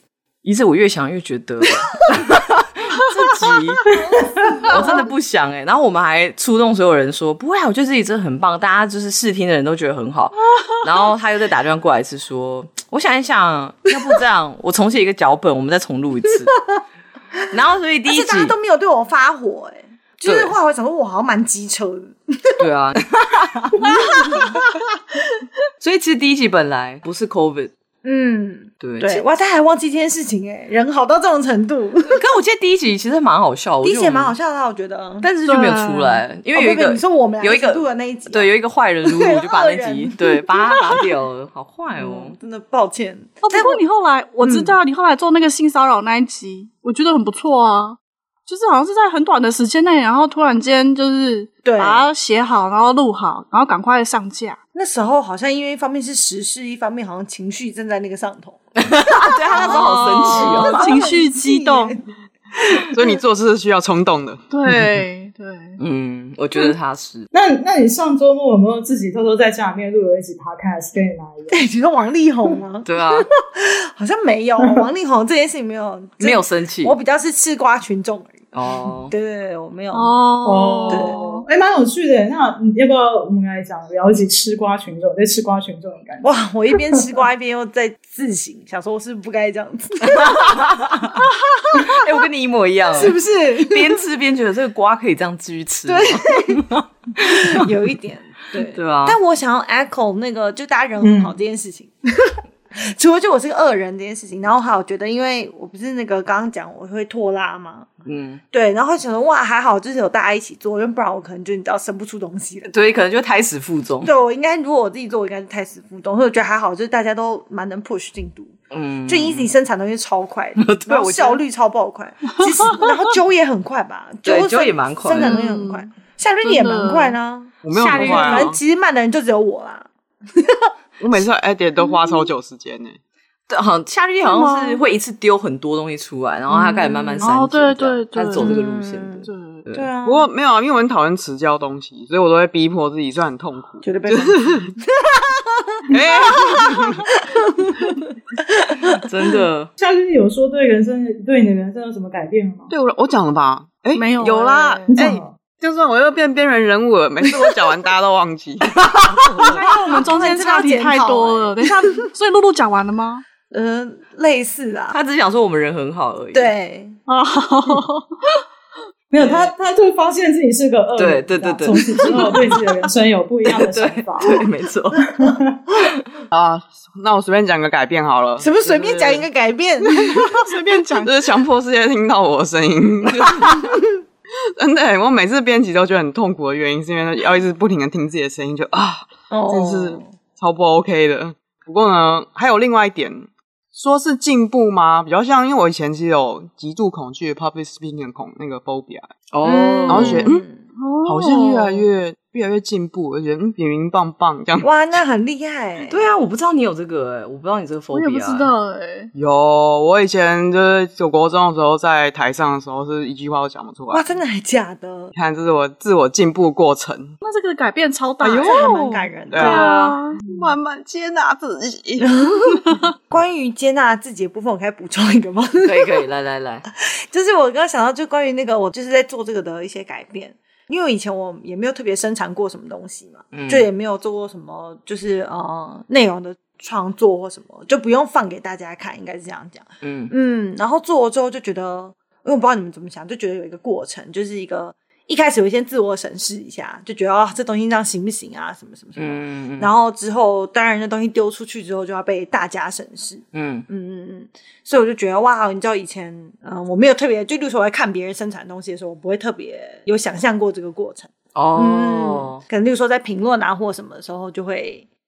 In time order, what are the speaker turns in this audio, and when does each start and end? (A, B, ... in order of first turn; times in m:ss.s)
0:00.4-0:03.9 A
0:03.9-0:05.1 B
0:04.6-0:16.5 A
0:17.5-0:18.5 A
0:18.1-0:22.6 B
0:20.2-0:20.5 A
0:22.6-0:24.5 A
0:23.8-0:24.7 B
0:25.8-0:27.7 A
0:28.0-0:32.2 B
0:28.8-0:29.2 A
0:32.1-0:34.4 A
0:33.8-0:35.3 B
0:35.2-0:42.4 A
0:35.4-0:36.2 C
0:36.5-0:38.5 B
0:39.0-0:41.0 B
0:42.0-0:43.8 B
0:43.4-0:54.6 C
0:44.4-0:44.8 B
0:51.6-0:52.1 B
0:54.7-0:58.6 B
0:58.8-1:00.9 A
0:59.3-1:02.0 B
0:59.6-1:02.0 C
1:02.9-1:04.4 D
1:04.5-1:05.8 C
1:05.8-1:07.3 A
1:07.3-1:11.6 E
1:11.5-1:18.4 B
1:12.8-1:13.3 A
1:16.2-1:17.0 A
1:18.5-1:19.1 A
1:19.1-1:20.2 B
1:19.9-1:21.3 C
1:20.4-1:26.3 E
1:20.9-1:21.4 B
1:26.2-1:30.7 B
1:30.0-1:31.1 A
1:31.7-1:37.7 A
1:32.9-1:34.0 B
1:35.8-1:36.6 B
1:37.2-1:47.9 B
1:38.6-1:39.2 A
1:41.0-1:41.3 E
1:48.0-1:48.4 A
1:48.5-1:52.7 B
1:52.7-1:54.1 A
1:54.0-1:58.5 B
1:58.7-1:59.5 A
1:59.1-2:10.7 B
2:00.6-2:01.4 A
2:04.2-2:05.4 A
2:05.2-2:05.8 C
2:06.4-2:07.2 C
2:07.6-2:08.6 D
2:07.7-2:08.4 A
2:08.0-2:08.5 C
2:11.0-2:13.0 D
2:13.5-2:19.9 A
2:14.2-2:14.8 C
2:16.5-2:17.3 B
2:17.2-2:18.6 C
2:18.4-2:20.3 B
2:19.2-2:19.6 C
2:20.0-2:24.7 D
2:23.8-2:28.9 B
2:25.9-2:27.2 D
2:29.0-2:29.7 A
2:29.8-2:32.7 E
2:32.7-2:39.5 D
2:33.9-2:35.0 C
2:34.9-2:35.3 E
2:39.1-2:41.7 B
2:39.4-2:43.2 C
2:43.5-2:45.0 B
2:44.9-2:46.5 A
2:46.3-2:47.0 B
2:47.1-2:48.4 C
2:49.1-2:54.4 E
2:49.2-2:49.5 A
2:51.0-2:52.5 A
2:51.9-2:52.3 B
2:53.4-2:55.1 A
2:55.1-2:55.6 E
2:56.3-2:59.2 D
2:58.4-3:00.2 B
2:58.7-2:59.1 A
3:00.2-3:01.2 C
3:00.7-3:03.8 D
3:03.4-3:03.8 B
3:04.6-3:19.1 D
3:09.3-3:10.1 B
3:19.3-3:20.3 A
3:19.4-3:20.6 B
3:19.9-3:20.4 D
3:20.8-3:21.8 C
3:21.0-3:24.7 D
3:24.6-3:26.0 B
3:25.9-3:28.5 A
3:27.9-3:29.1 C
3:29.1-3:34.1 D
3:33.9-3:35.1 B
3:35.1-3:37.2 D
3:37.2-3:38.8 C
3:38.2-3:42.1 D
3:38.4-3:39.6 B
3:39.3-3:40.2 C
3:39.4-3:40.0 A
3:42.0-3:45.9 B
3:45.6-3:46.6 A
3:46.8-4:24.8 B
3:53.3-3:53.7 A
3:59.8-4:00.1 A
4:09.0-4:09.7 A
4:13.3-4:13.7 A
4:21.3-4:22.4 A